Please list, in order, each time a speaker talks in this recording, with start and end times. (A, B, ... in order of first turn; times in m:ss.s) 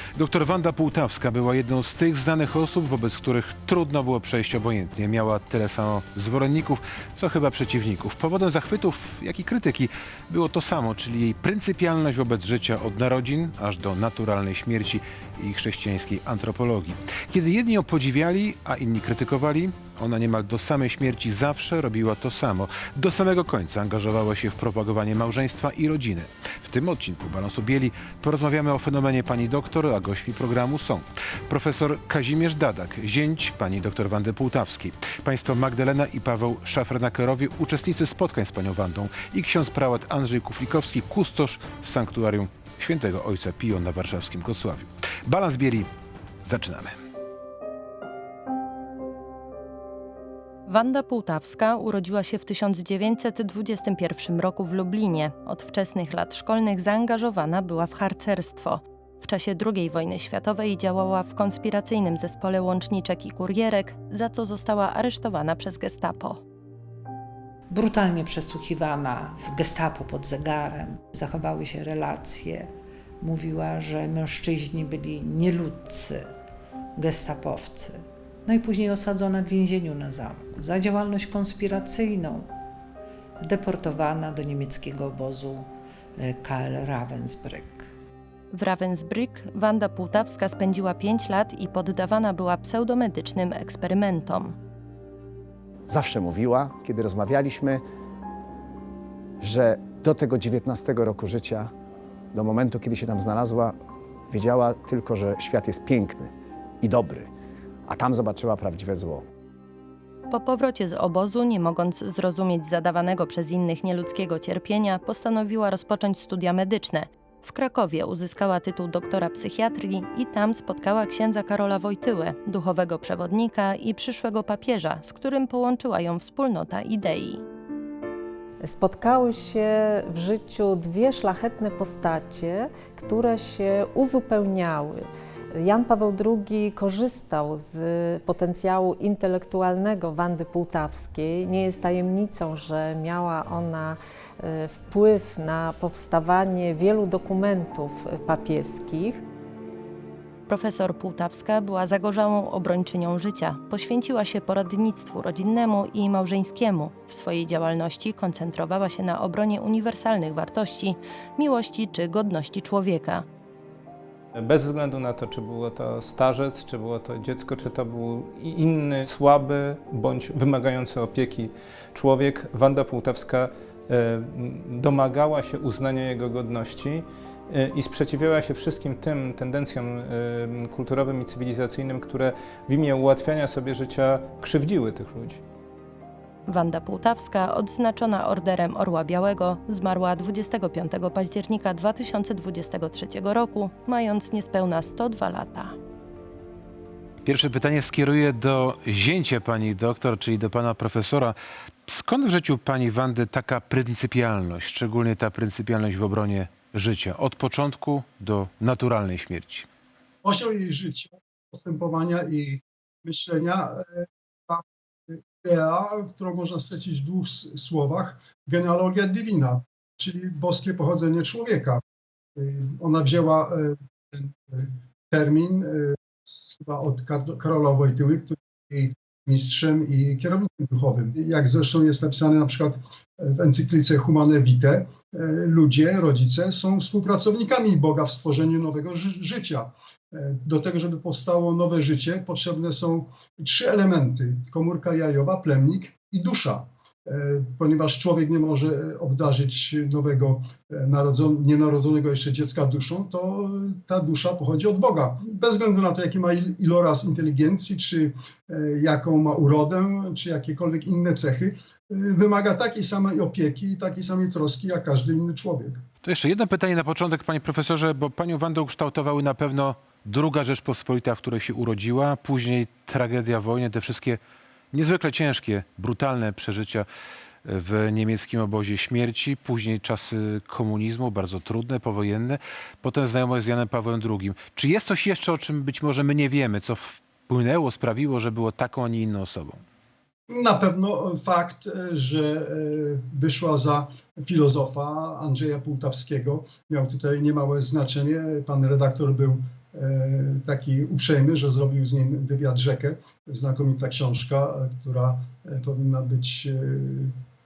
0:00.2-0:45.9 A
0:46.4-0:47.0 A
0:50.7-1:06.4 B
1:07.7-1:16.3 C
1:17.0-1:22.6 C
1:23.4-1:27.9 C
1:28.5-1:34.6 B
1:35.9-1:37.8 D
1:39.4-1:41.7 D
1:42.3-1:43.8 D
1:44.3-1:47.3 D
1:47.9-1:49.2 D
1:50.3-2:07.4 B
2:08.6-2:29.2 E
2:30.5-2:43.2 B
2:44.4-3:05.4 F
3:06.5-3:15.8 B
3:17.2-3:29.7 A
3:30.2-3:41.8 G
3:42.4-4:25.8 G
4:26.0-4:34.2 A
4:34.7-4:36.9 A
4:37.4-4:49.6 A
4:50.3-5:07.1 G